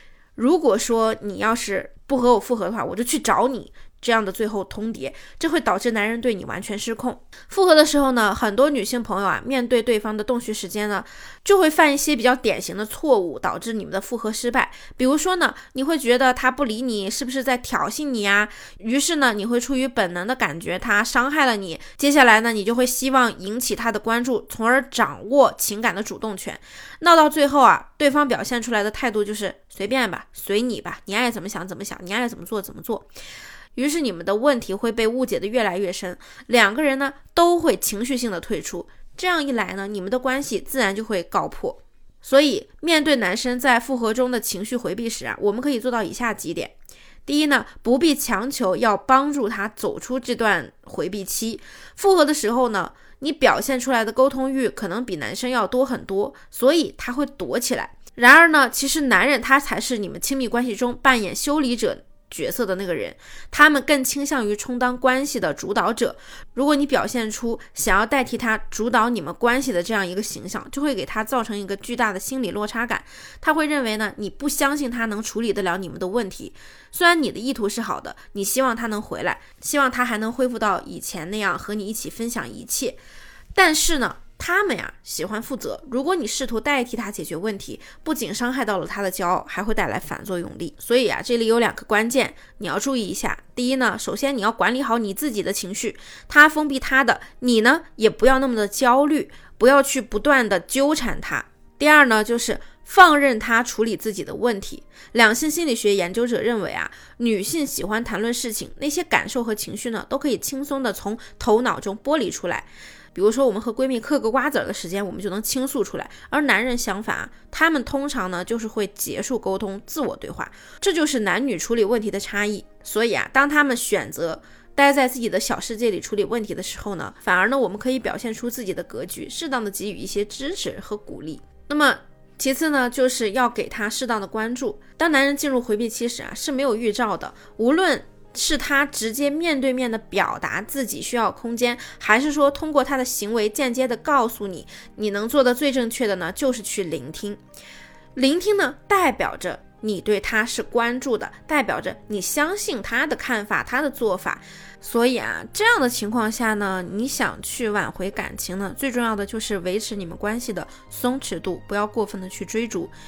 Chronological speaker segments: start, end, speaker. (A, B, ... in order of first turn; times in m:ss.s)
0:00.4-0:33.0 A
0:33.7-0:46.7 A
0:47.2-1:23.0 A
1:23.5-2:27.4 A
2:28.1-2:42.9 A